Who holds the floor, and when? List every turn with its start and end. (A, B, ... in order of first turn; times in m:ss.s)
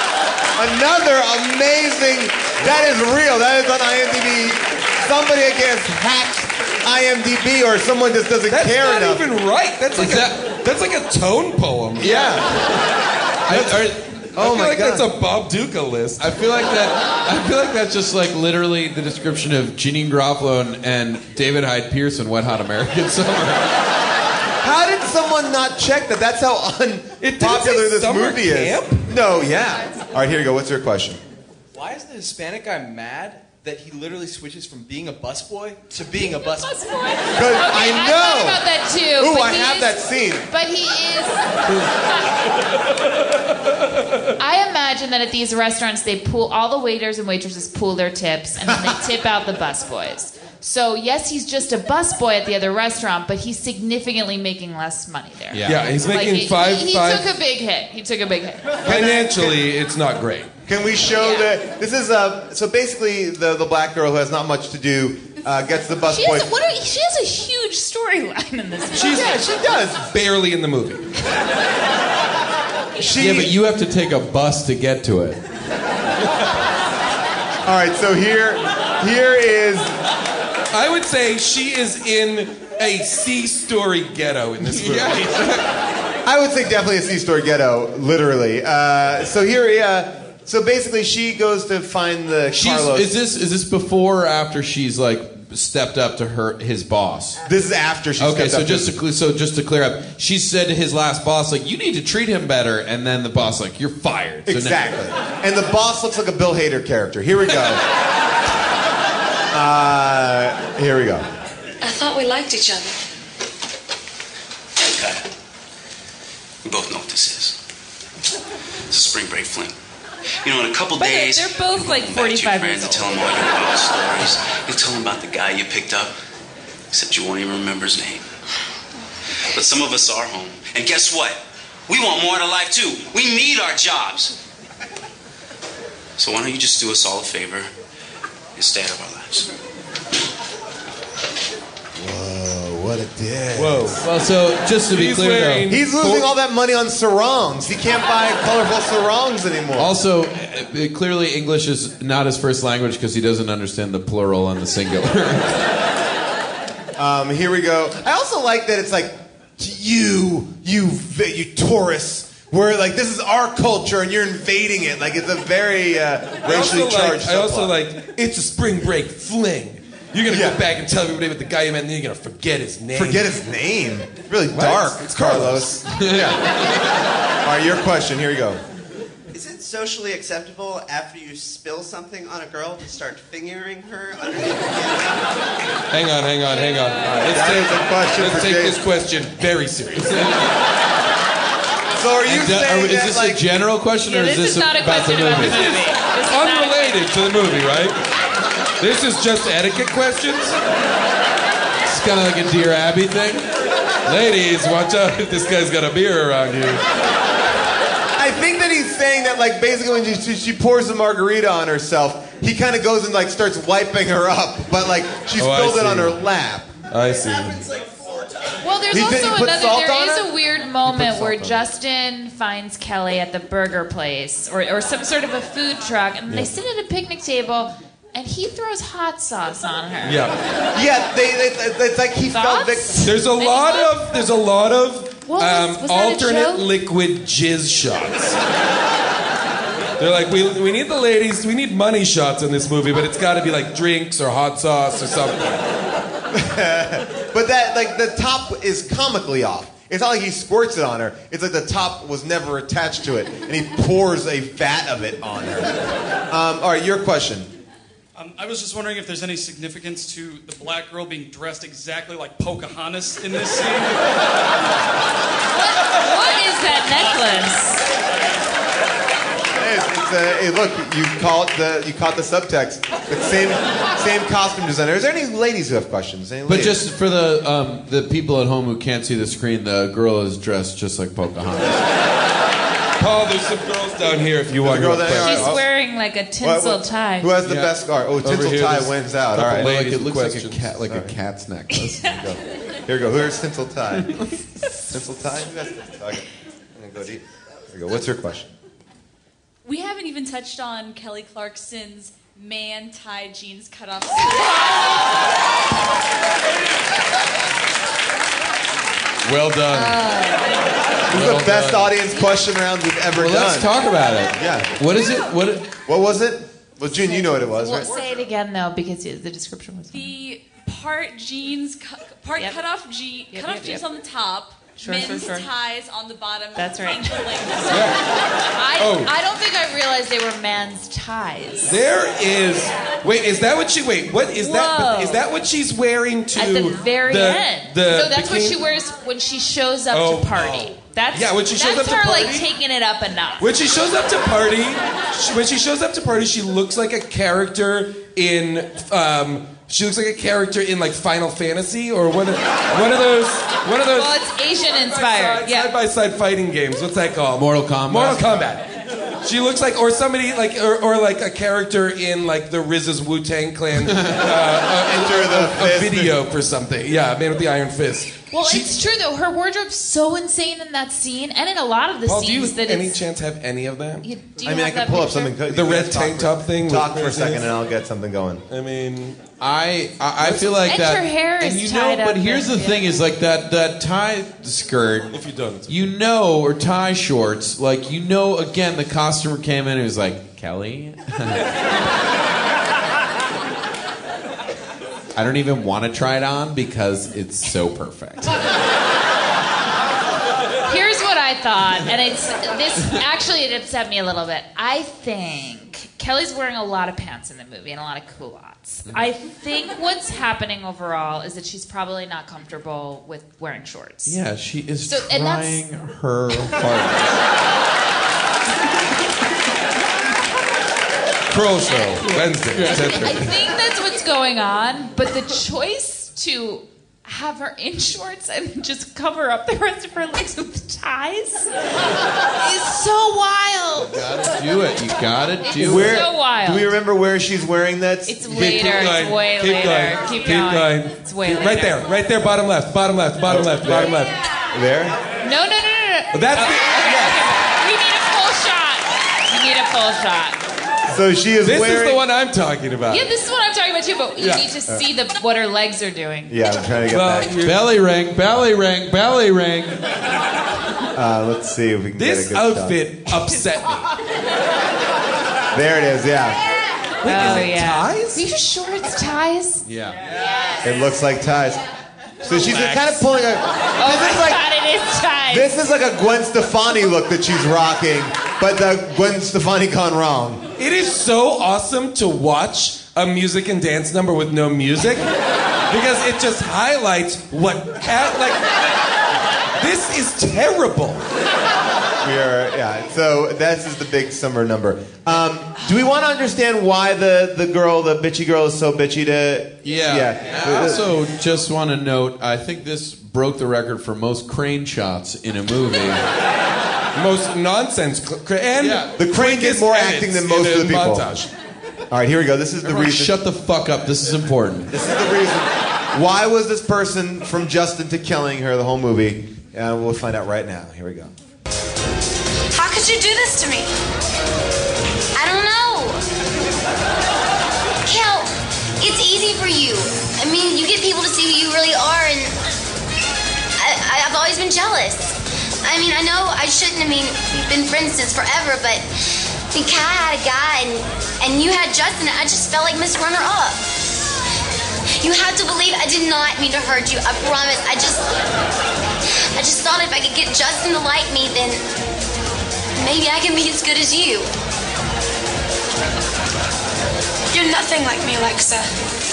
0:00.6-0:09.2 A
0:08.5-0:12.1 B
0:10.0-0:10.3 C
0:12.0-0:12.5 A
0:13.5-0:14.0 C
0:13.5-0:15.1 A
0:14.4-0:16.3 B
0:16.2-0:23.7 C
0:24.6-0:31.2 A
0:27.2-0:29.1 B
0:31.7-0:36.8 D
0:36.2-0:41.5 E
0:37.4-0:38.6 A
0:39.2-0:40.5 A
0:44.4-0:58.8 E
0:48.6-0:49.0 A
0:55.5-0:55.9 C
0:55.6-0:57.3 B
0:58.8-0:59.6 A
0:58.8-1:00.5 B
1:00.7-1:06.5 A
1:01.2-1:01.5 E
1:06.1-1:09.3 E
1:09.0-1:09.4 B
1:09.0-1:10.1 A
1:10.1-1:11.1 B
1:13.0-1:13.6 A
1:13.1-1:15.4 C
1:17.6-1:19.9 A
1:20.7-1:25.3 B
1:24.6-1:25.6 C
1:26.2-1:33.1 A
1:32.5-1:37.4 C
1:37.4-1:38.9 A
1:38.2-1:44.8 C
1:44.5-1:47.8 A
1:49.5-1:51.3 A
1:51.8-1:53.0 F
1:54.8-1:55.2 G
1:56.6-1:57.6 G
1:58.9-1:59.8 G
2:00.4-2:06.1 G
2:01.0-2:03.2 E
2:06.9-2:08.2 G
2:09.5-2:14.4 G
2:16.2-2:17.7 G
2:18.6-2:19.5 G
2:22.0-2:24.0 A
2:23.5-2:24.0 B
2:24.0-2:25.7 C
2:24.9-2:26.2 B
2:25.7-2:29.9 A
2:29.8-2:35.6 C
2:37.0-2:47.8 A
2:46.4-2:53.3 B
2:50.3-2:50.6 A
2:52.9-2:56.4 A
2:54.5-2:55.7 B
2:56.0-2:56.4 C
2:57.4-2:58.6 A
2:59.3-3:05.2 H
3:05.9-3:10.4 B
3:07.3-3:08.8 A
3:12.0-3:13.5 A
3:12.3-3:15.7 C
3:14.1-3:17.0 E
3:15.4-3:18.0 B
3:18.8-3:20.6 B
3:21.8-3:23.5 C
3:24.1-3:26.8 B
3:28.2-3:36.7 A
3:35.4-3:36.2 B
3:36.9-3:37.7 B
3:38.6-3:50.3 E
3:38.9-3:40.3 A
3:41.0-3:41.3 A
3:41.0-3:41.5 C
3:50.0-3:50.4 B
3:50.7-3:53.2 A
3:52.3-3:54.2 E
3:53.0-3:58.4 B
3:55.3-3:56.7 E
4:00.0-4:05.6 B
4:06.3-4:15.8 A
4:16.3-4:17.5 A
4:18.2-4:24.0 I
4:25.5-4:27.9 E
4:29.6-4:36.8 A
4:36.5-4:41.9 C
4:43.0-4:45.6 B
4:44.6-4:45.6 A
4:45.2-4:47.3 E
4:46.4-4:49.7 A
4:48.2-4:50.8 B
4:49.4-4:52.2 C
4:50.9-4:51.2 A
4:52.0-4:54.2 A
4:54.9-4:58.5 A
4:59.6-5:05.1 J
5:09.2-5:10.0 C
5:09.7-5:10.5 E
5:11.1-5:13.7 A
5:11.1-5:11.9 C
5:13.2-5:15.7 C
5:14.4-5:14.7 A
5:15.9-5:17.9 A
5:16.9-5:20.1 E
5:19.9-5:28.0 J
5:23.3-5:23.9 E
5:24.8-5:25.5 E
5:26.6-5:27.2 E
5:27.7-5:28.0 B
5:28.6-5:31.8 E
5:28.8-5:29.1 B
5:31.7-5:38.6 B
5:34.4-5:35.2 E
5:36.4-5:43.5 E
5:39.9-5:42.5 B
5:43.4-5:54.2 B
5:53.9-5:55.7 E
5:54.7-5:58.7 B
5:57.4-5:58.5 C
5:59.2-6:08.7 B
6:03.8-6:04.3 C
6:04.9-6:06.2 A
6:08.3-6:13.0 E
6:12.0-6:14.1 B
6:14.0-6:15.4 E
6:14.4-6:18.4 A
6:15.5-6:17.5 B
6:18.5-6:19.2 B
6:19.4-6:25.2 C
6:20.2-6:20.7 B
6:20.7-6:22.9 E
6:25.1-6:25.9 B
6:25.7-6:31.5 C
6:35.2-6:38.4 C
6:40.7-6:54.2 E
6:54.1-6:57.2 C
6:54.8-6:55.6 E
7:01.3-7:03.3 B
7:02.1-7:03.3 C
7:02.6-7:11.5 E
7:12.4-7:14.0 E
7:13.8-7:16.0 C
7:15.4-7:16.7 E
7:15.6-7:18.2 A
7:18.1-7:21.8 E
7:18.3-7:24.2 B
7:23.3-7:24.0 A
7:24.5-7:25.0 A
7:25.2-7:30.4 E
7:26.1-7:27.2 B
7:30.9-7:32.0 A
7:31.4-7:33.1 B
7:32.9-7:36.4 E
7:34.2-7:34.5 B
7:36.3-7:37.3 A
7:36.9-7:37.7 B
7:37.4-7:39.8 C
7:40.9-7:42.8 A
7:42.0-7:43.9 B
7:45.5-7:46.4 A
7:47.0-7:48.2 B
7:47.0-7:49.6 E
7:49.6-7:50.0 C
7:50.6-7:51.6 A
7:52.2-7:54.4 A
7:52.2-7:53.1 B
7:53.8-7:55.5 E
7:55.3-8:00.4 A
8:00.6-8:05.1 B
8:05.7-8:08.4 B
8:09.6-8:11.1 B
8:12.0-8:20.9 A
8:19.6-8:26.0 C
8:27.0-8:31.3 B
8:28.7-8:31.1 A
8:31.9-8:33.2 A
8:32.6-8:34.7 C
8:34.7-8:41.1 A
8:42.5-8:43.7 F
8:45.2-8:46.0 K
8:47.8-8:52.3 K
8:53.6-8:58.9 K
8:59.5-9:03.7 K
9:05.0-9:08.1 K
9:09.4-9:11.6 K
9:12.8-9:14.3 K
9:17.3-9:18.7 F